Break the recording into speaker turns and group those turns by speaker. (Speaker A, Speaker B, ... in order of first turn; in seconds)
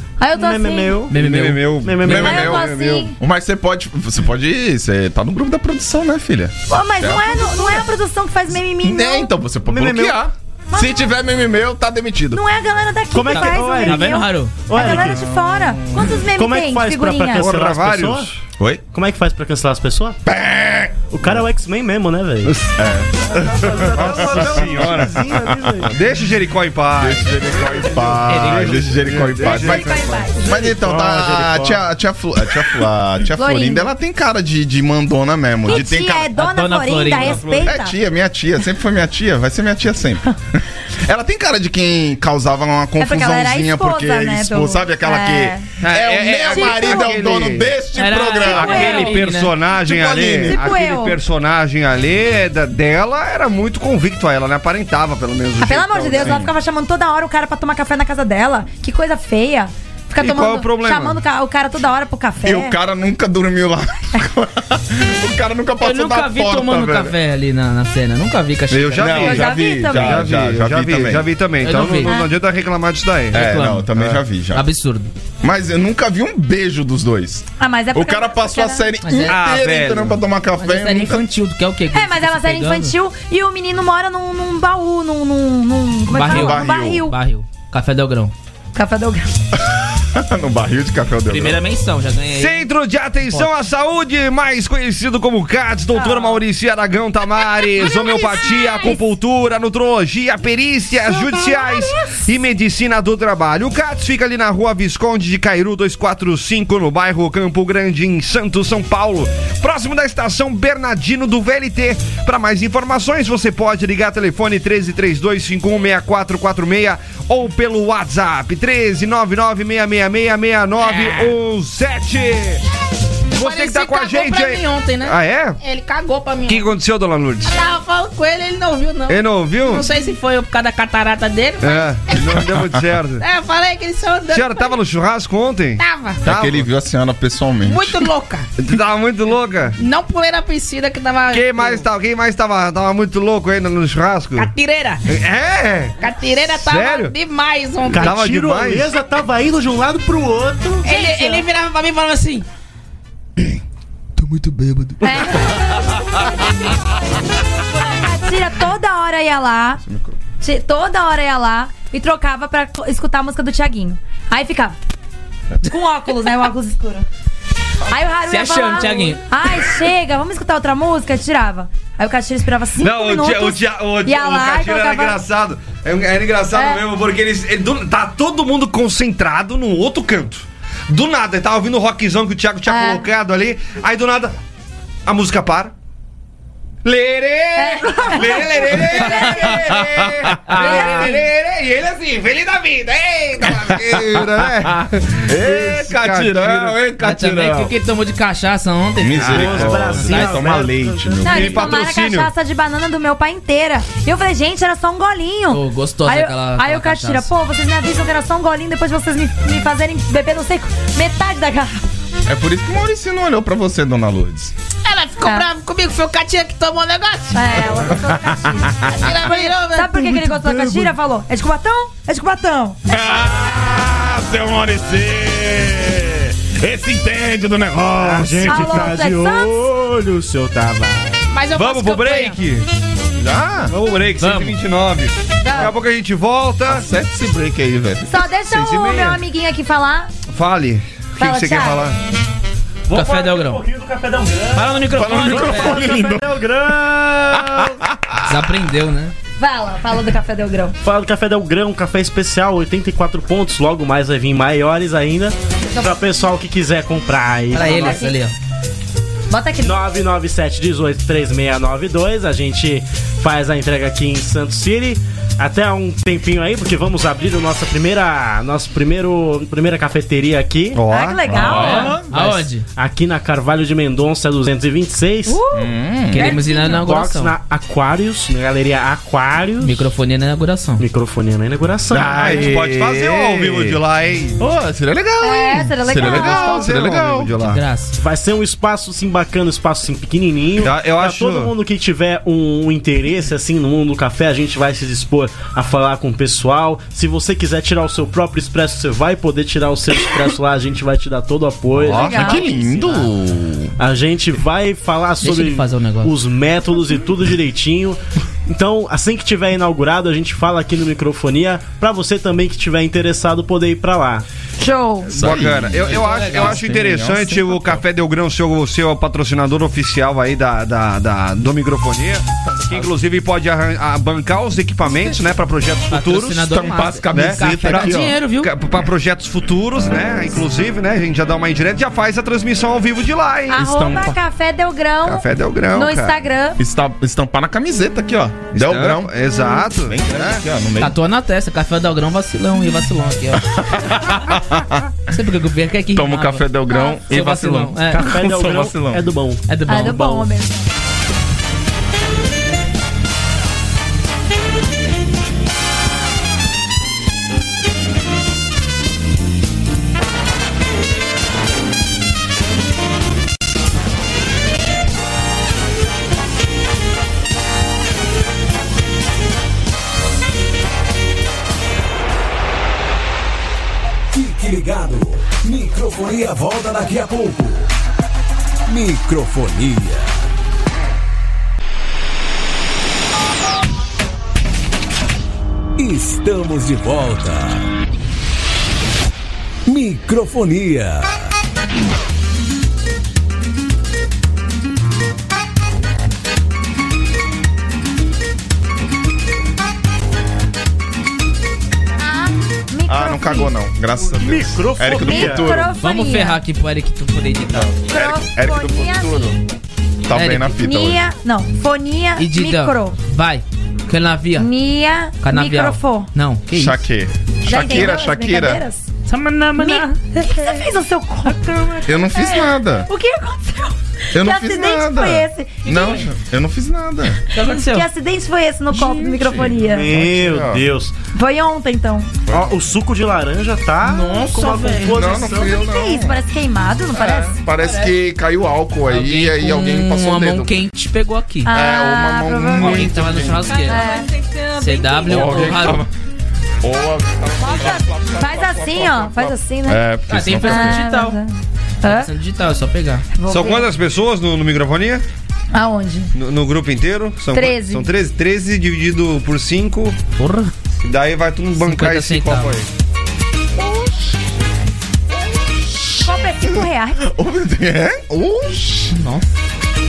Speaker A: 0.2-1.0, 2.2-3.2, 6.7-9.3, 10.7-11.1, 12.3-17.5, 29.4-30.5, 33.4-33.9, 35.6-38.0, 43.0-45.6, 46.5-47.1, 48.5-49.2, 50.5-51.2, 55.6-62.8, 69.2-70.2, 77.6-78.9, 81.9-87.1, 88.8-89.3, 95.9-96.4, 97.8-99.0, 101.1-102.2, 150.8-151.4, 155.0-156.7, 157.8-159.8, 160.4-164.8, 165.6-167.1, 167.9-175.2, 176.5-176.8, 182.7-183.1, 187.6-189.6, 190.6-191.2, 201.2-211.8, 215.2-215.5, 217.3-222.8, 228.4-229.7, 235.4-235.7, 238.1-240.1, 241.2-241.9, 249.4-250.8, 257.5-258.2, 259.3-259.8, 270.9-272.0, 275.3-276.8, 285.2-286.6, 301.9-302.4, 314.6-315.4, 333.5-336.6, 346.7-347.0, 349.7-350.7, 402.0-403.5, 405.0-406.4, 407.9-409.3, 410.5-413.0, 414.4-416.1, 417.5-418.9, 419.6-426.0, 427.4-429.9, 431.1-432.1, 435.2-437.4, 441.4-442.9, 443.7-444.1, 447.4-449.9, 450.4-452.1, 453.1-453.7, 455.5-456.1, 457.3-457.9, 466.0-467.0
Speaker B: 0.3-1.2, 1.8-2.5, 9.7-10.2, 13.1-15.2, 16.3-18.3, 18.9-20.2, 21.1-22.6, 23.3-25.9, 30.4-31.8, 147.9-150.9, 199.3-201.4, 228.0-231.2, 242.9-247.8, 250.8-258.0, 259.6-270.8, 272.1-275.4, 276.6-279.9, 280.8-282.6, 288.0-302.8, 303.8-314.2, 347.9-349.4, 404.1-405.5, 429.6-430.9, 432.3-435.5
Speaker C: 1.1-2.3, 13.3-14.6, 28.3-28.9, 36.4-37.4, 47.9-49.5, 65.8-69.4, 71.6-72.2, 73.3-73.9, 74.5-75.1, 79.0-79.4, 80.6-82.9, 86.1-88.3, 91.3-92.7, 120.8-121.3, 123.3-126.7, 127.5-132.2, 133.2-134.8, 135.8-136.2, 137.7-138.5, 139.8-141.8, 144.4-145.0, 146.0-148.1, 150.8-152.5, 168.3-169.2, 197.0-200.4, 205.5-207.3, 214.8-217.6, 218.9-220.1, 231.3-232.4, 234.2-234.6, 242.9-243.6, 244.5-245.9, 248.2-249.2, 257.5-258.4, 271.6-272.7, 276.1-277.3, 279.6-280.8, 287.4-287.9, 305.2-306.1, 315.8-316.7, 325.9-328.5, 340.8-343.6, 345.1-346.5, 347.0-348.1, 349.5-350.3, 405.8-407.7, 410.1-410.5, 412.2-414.5, 415.2-416.8, 419.1-419.9, 421.2-421.9, 425.7-426.0, 427.3-427.9, 433.8-435.2, 437.6-437.9, 438.9-441.5, 442.6-443.8, 444.6-445.9, 450.1-451.2, 451.8-453.1, 460.2-460.5, 461.6-462.6, 468.9-469.3
Speaker D: 1.1-3.0, 17.4-18.4, 22.4-22.8, 23.8-25.2, 25.9-30.3, 37.1-37.7, 45.8-47.7, 48.5-56.5, 60.2-61.2, 68.7-74.2, 79.3-80.2, 92.3-122.6, 123.3-125.6, 126.5-127.5, 129.1-129.9, 131.6-133.2, 134.3-136.7, 138.6-139.8, 141.3-144.5, 145.1-146.0, 146.5-147.1, 148.0-148.9, 172.8-184.4, 185.1-185.7, 186.8-196.8, 199.2-199.9, 201.2-202.3, 231.5-232.7, 233.6-236.9, 238.5-239.2, 240.3-242.0, 270.7-271.9, 281.9-284.4, 285.9-287.6, 290.6-291.5, 301.8-302.5, 315.1-326.5, 327.1-333.6, 335.0-336.2, 338.5-340.4, 453.3-455.0, 456.1-460.0, 460.8-462.7
Speaker E: 2.0-7.7, 8.8-12.4, 14.9-16.0, 20.3-21.4, 22.8-25.9, 27.0-36.3, 37.5-49.1, 49.7-50.6, 56.2-56.5, 62.4-67.2, 69.0-71.3, 73.3-74.7, 75.4-81.2, 86.2-87.1, 89.6-91.6, 136.2-138.1, 154.2-155.5, 159.8-160.2, 188.8-190.8, 193.4-197.7, 199.0-201.8, 212.3-214.5, 218.3-218.9, 222.9-228.9, 233.2-233.7, 236.7-238.3, 244.9-246.4, 247.3-248.4, 271.2-272.1, 275.5-276.4, 281.9-283.8, 284.4-287.3, 302.0-303.7, 315.1-317.8, 326.5-328.2, 333.5-334.2, 336.6-341.0, 343.6-344.9, 345.9-349.1, 402.9-405.8, 407.5-409.4, 410.1-411.0, 416.5-418.6, 421.9-422.9, 424.1-427.2, 428.7-430.6, 432.3-432.6, 434.9-436.2, 436.9-440.5, 441.5-443.5, 445.1-445.9, 446.6-450.8, 466.4-469.0
Speaker F: 374.1-377.7, 378.7-380.2, 385.8-387.7, 389.7-391.3
Speaker G: 443.5-445.8